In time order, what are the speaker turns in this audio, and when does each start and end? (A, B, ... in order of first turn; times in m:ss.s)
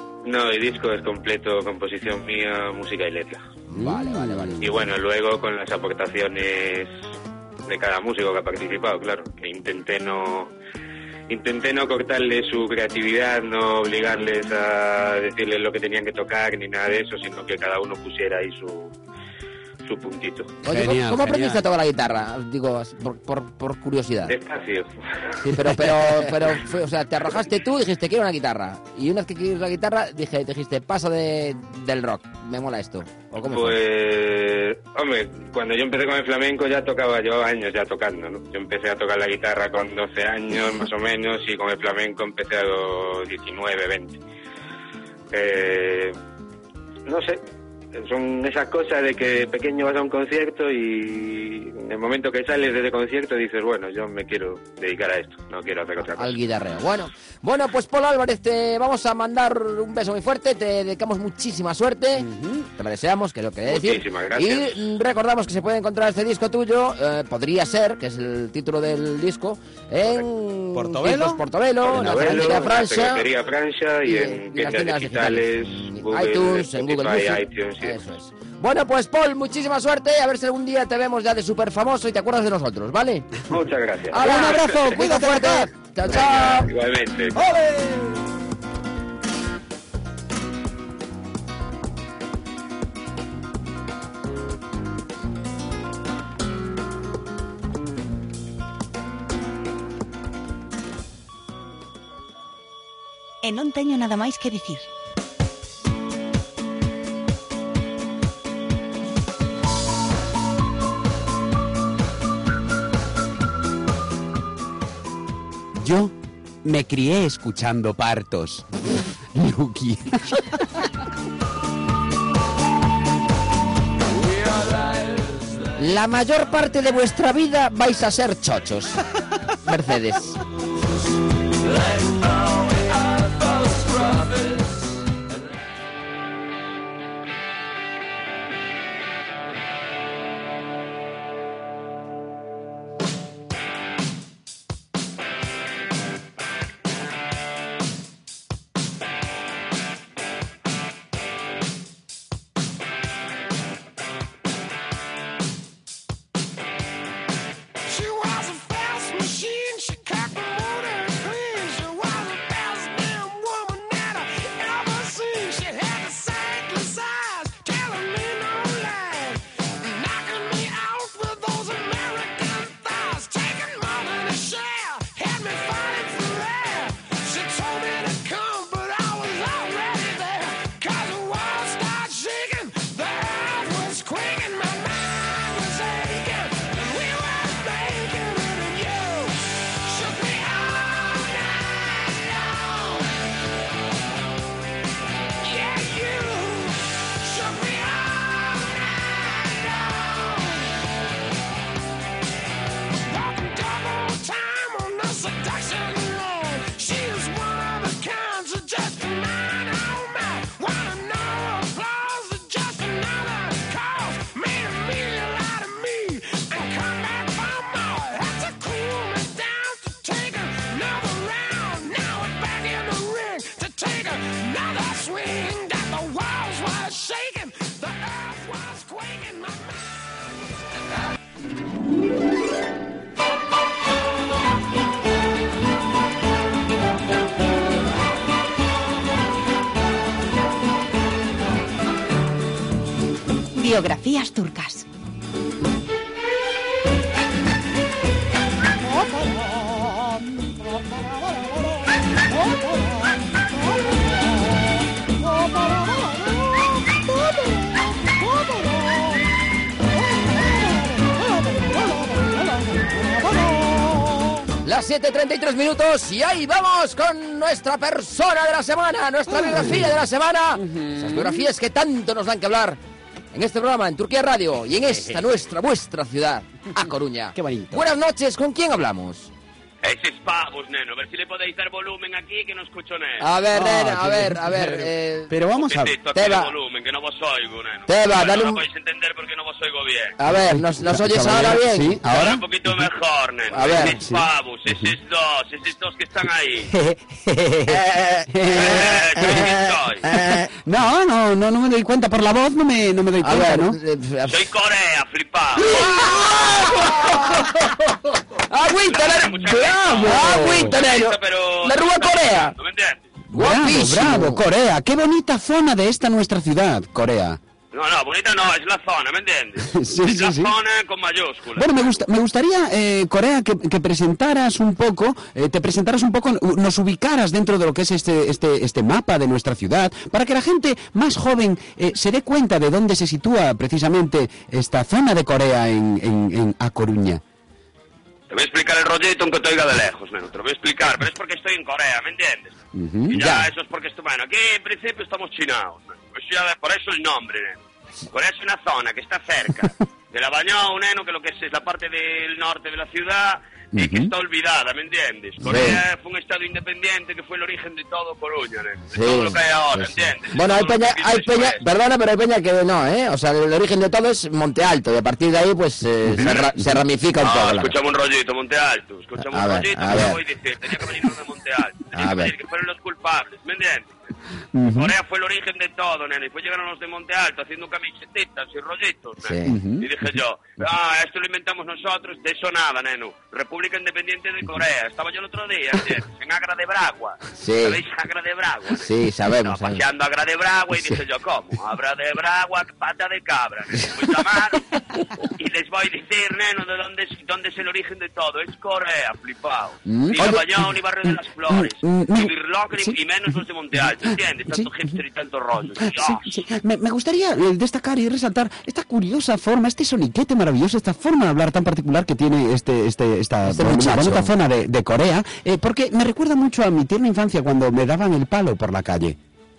0:00.2-0:03.4 A
0:03.7-0:04.7 B
0:03.7-0:04.7 C
0:04.6-0:06.9 A
0:07.7-0:10.5 A
0:11.3-0:18.9 A
0:19.8-0:20.6 A
0:20.6-0:21.6 C
0:20.6-0:24.3 B
0:24.2-0:24.9 A
0:25.4-0:33.8 B
0:25.5-0:26.3 C
0:33.4-0:44.2 A
0:45.3-0:46.1 A
0:47.0-0:47.4 A
0:47.9-0:56.4 A
0:56.2-1:13.2 B
1:02.2-1:02.7 C
1:03.6-1:04.8 A
1:10.7-1:12.6 C
1:11.8-1:18.0 A
1:14.0-1:23.3 B
1:23.5-1:24.9 A
1:24.1-1:26.7 B
1:24.1-1:25.7 C
1:26.1-1:27.4 A
1:27.3-1:28.2 C
1:43.4-1:44.9 D
1:55.8-1:58.7 C
1:59.3-2:00.8 C
2:05.8-2:09.0 B
2:09.6-2:10.4 B
2:37.8-3:13.1 E
3:15.4-3:20.7 E
3:23.0-3:49.9 E
4:03.5-4:04.9 D
4:24.6-4:32.8 B
4:29.3-4:29.9 C
4:30.6-4:31.5 C
4:33.3-4:39.3 B
4:37.3-4:37.8 C
4:39.8-4:43.3 F
4:43.2-4:45.3 B
4:43.5-4:46.0 C
4:45.5-4:50.2 F
4:46.1-4:46.5 B
4:47.9-4:48.6 B
4:50.2-4:52.0 B
4:50.3-4:52.9 C
4:52.0-4:56.7 F
4:53.5-4:54.0 B
4:53.8-4:54.9 C
4:56.7-4:59.5 C
4:57.6-5:00.5 B
4:58.5-5:00.1 F
5:00.3-5:03.8 C
5:03.2-5:04.3 B
5:04.2-5:06.8 F
5:05.6-5:07.8 B
5:08.5-5:12.5 B
5:08.8-5:13.1 F
5:10.0-5:10.7 C
5:13.3-5:14.4 B
5:13.3-5:17.4 C
5:17.7-5:22.0 F
5:19.7-5:20.5 C
5:21.5-5:37.2 C
5:38.3-5:42.6 F
5:42.7-5:43.2 C
5:43.1-6:01.6 F
5:43.1-5:43.5 B
5:53.7-5:54.1 C
5:55.5-5:55.8 B
5:58.9-6:07.7 B
6:06.2-6:06.5 F
6:07.2-6:14.0 F
6:09.2-6:10.2 B
6:11.9-6:12.3 B
6:14.5-6:14.9 C
6:14.6-6:34.7 F
6:19.2-6:19.6 B
6:19.4-6:19.9 C
6:27.4-6:27.8 B
6:28.8-6:29.8 B
6:35.4-6:46.4 F
6:39.8-6:43.0 C
6:45.8-6:59.2 C
6:53.4-6:54.3 B